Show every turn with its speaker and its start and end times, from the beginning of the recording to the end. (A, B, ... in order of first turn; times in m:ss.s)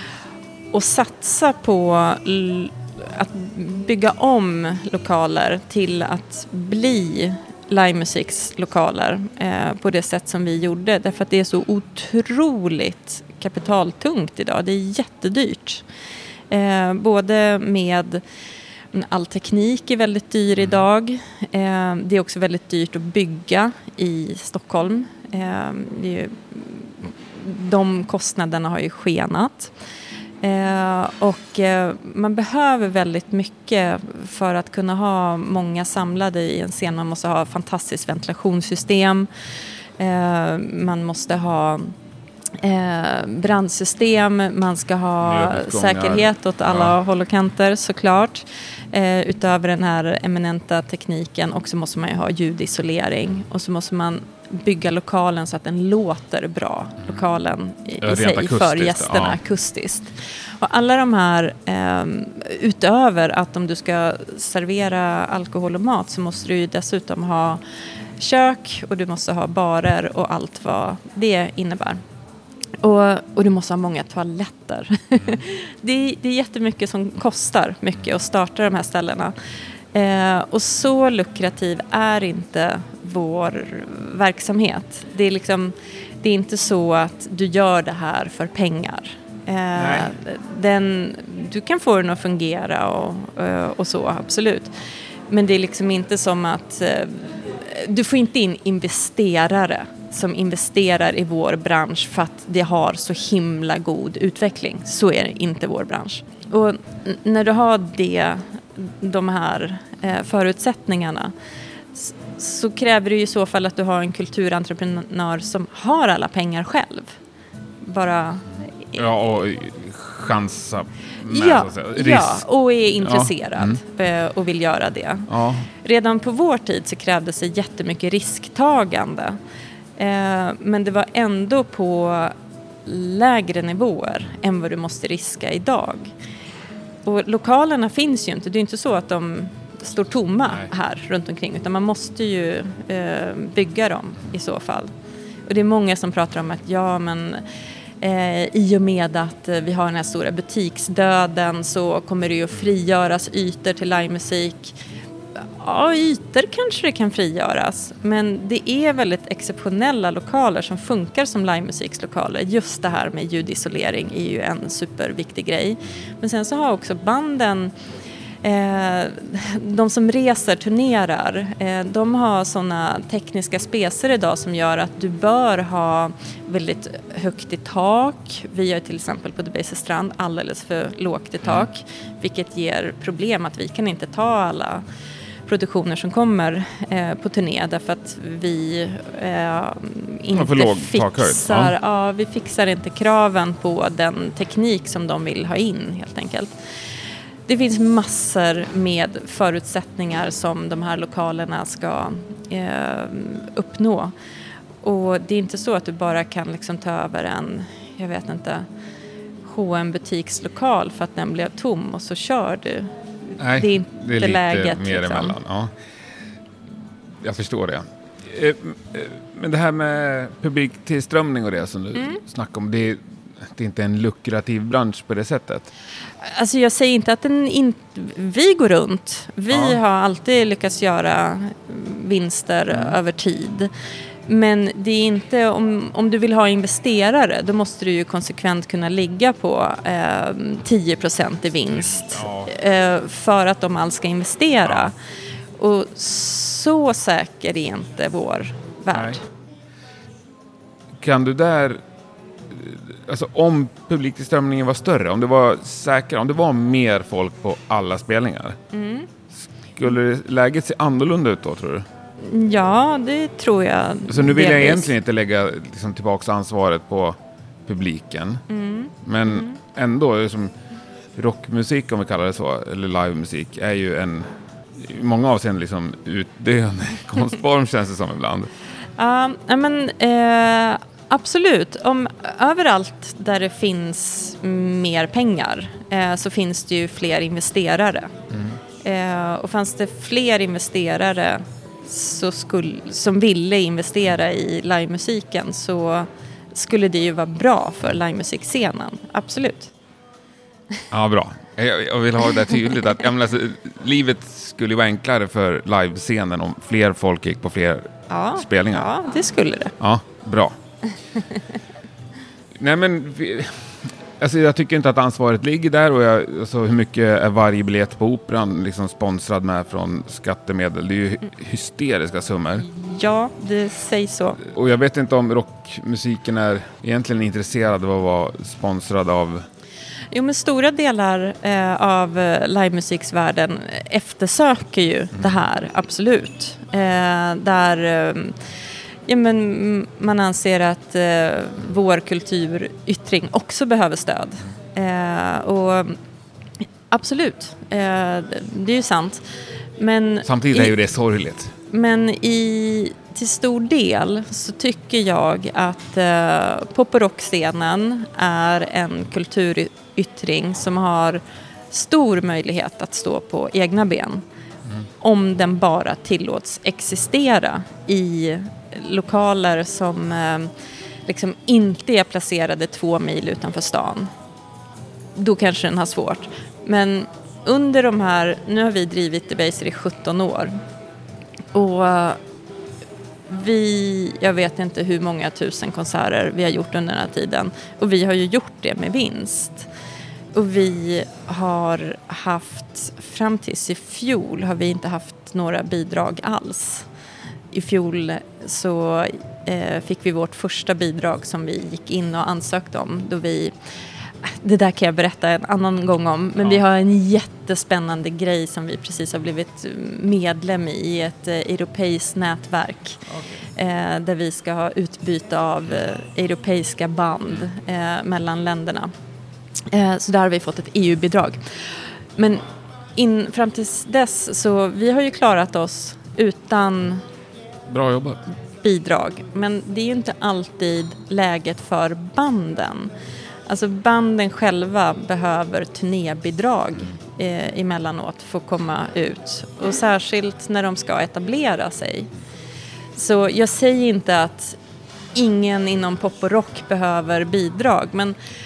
0:00.7-0:15.8 A
0:16.5-0:18.2 A
0:18.9-0:29.7 A
0:20.6-0:20.8 B
0:30.4-0:39.3 A
0:40.0-0:41.9 A
0:42.6-1:07.6 A
0:45.2-0:47.0 B
0:58.0-0:59.4 B
1:08.2-1:12.0 A
1:12.8-1:19.4 A
1:19.9-1:34.7 A
1:29.8-1:30.1 B
1:35.3-1:51.3 A
1:52.0-1:57.2 A
1:57.8-1:59.0 A
1:59.0-2:02.4 B
2:01.3-2:09.4 A
2:03.0-2:03.8 B
2:05.3-2:05.7 B
2:10.0-2:12.4 A
2:12.9-2:16.1 A
2:17.0-2:24.9 A
2:25.5-2:27.4 A
2:28.0-2:34.8 A
2:35.6-2:47.7 A
2:48.4-3:04.8 A
3:05.5-3:16.6 A
3:10.3-3:11.7 B
3:17.5-3:24.1 A
3:24.8-3:28.7 A
3:29.4-3:35.4 A
3:33.4-3:35.7 B
3:37.2-3:45.7 B
3:42.0-3:42.2 A
3:46.2-3:53.7 A
3:49.5-3:49.8 B
3:52.7-3:53.0 B
3:54.3-4:04.9 A
4:01.7-4:02.5 B
4:04.6-4:04.9 B
4:05.6-4:09.2 A
4:08.9-4:09.2 B
4:11.0-4:11.8 B
4:12.5-4:18.6 B
4:18.7-4:19.1 A
4:19.8-4:21.9 B
4:22.2-4:24.9 A
4:24.1-4:28.4 B
4:28.5-4:29.6 A
4:29.0-4:30.5 B
4:31.2-4:38.5 B
4:39.0-4:48.1 A
4:48.3-4:48.6 B
4:48.8-4:59.7 A
5:00.9-5:08.9 B
5:02.4-5:02.6 A
5:08.1-5:09.8 A
5:09.8-5:10.6 B
5:12.6-5:22.7 B
5:22.6-5:24.4 A
5:24.5-5:29.5 B
5:30.1-5:38.4 A
5:39.1-5:46.0 A
5:46.9-5:49.2 A
5:49.8-5:50.8 A
5:50.2-5:51.5 B
5:51.7-6:04.2 A
6:05.0-6:10.5 A
6:11.1-6:14.1 A
6:15.2-6:20.6 A
6:21.5-6:22.2 A
6:23.3-6:29.7 A
6:30.3-6:36.9 A
6:37.5-6:43.5 A
6:44.2-6:53.0 A
6:53.1-6:53.4 B
6:53.6-6:58.9 A
6:59.7-7:02.4 A
7:03.0-7:07.0 A
7:07.7-7:08.2 B
7:08.6-7:12.9 A
7:13.5-7:22.1 A
7:23.0-7:24.6 A
7:25.1-7:28.2 A